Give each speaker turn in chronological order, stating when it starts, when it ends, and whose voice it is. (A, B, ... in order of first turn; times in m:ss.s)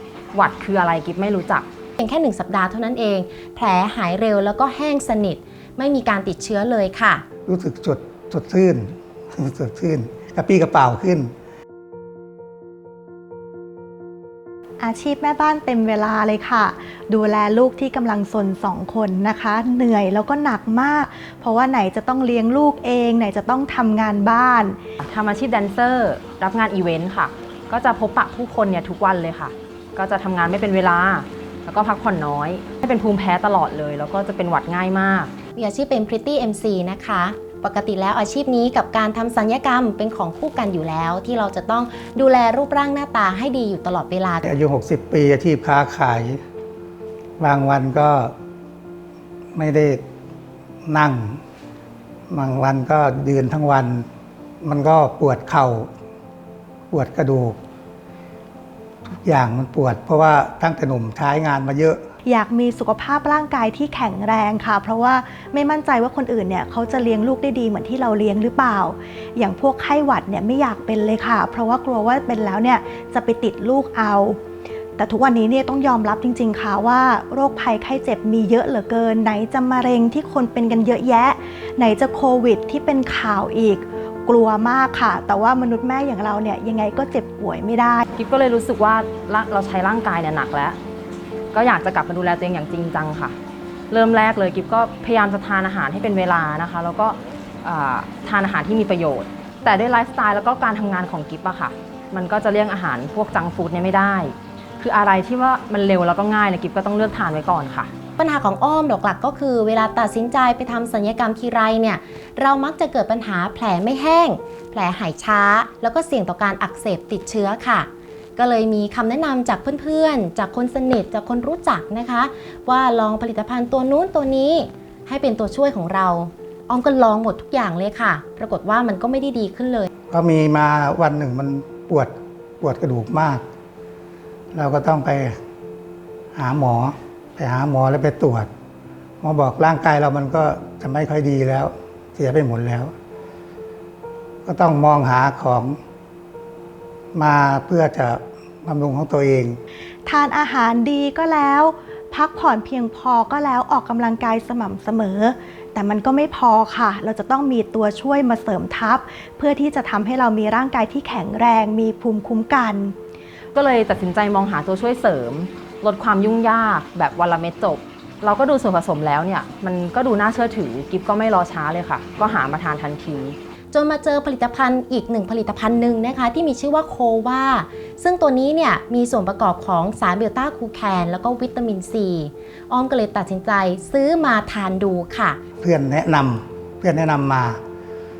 0:00.3-0:01.7 A
0:02.0-0:07.2 B
0:07.5-0:11.3 C
0:14.8-0:24.8 D
0:25.0-0:35.3 A
0:35.6-0:44.5 B
0:44.4-0:46.4 C
0:47.4-0:48.3 C
0:49.6-0:50.0 C
0:50.9-0:51.4 C
0:52.3-0:54.1 C
0:54.6-0:55.9 C
0:56.9-0:57.6 C
0:59.2-1:02.0 C
1:02.2-1:14.4 D
1:15.0-1:28.0 D
1:28.2-1:30.8 A
1:31.5-1:33.4 A
1:33.9-1:47.9 A
1:48.2-2:09.9 B
2:10.1-2:13.4 C
2:14.5-2:15.4 C
2:16.4-2:18.5 C
2:19.2-2:22.9 C
2:24.5-2:25.8 C
2:27.1-2:29.6 C
2:30.1-2:43.0 D
2:43.5-2:53.4 A
2:53.7-3:05.4 B
3:05.6-3:07.6 C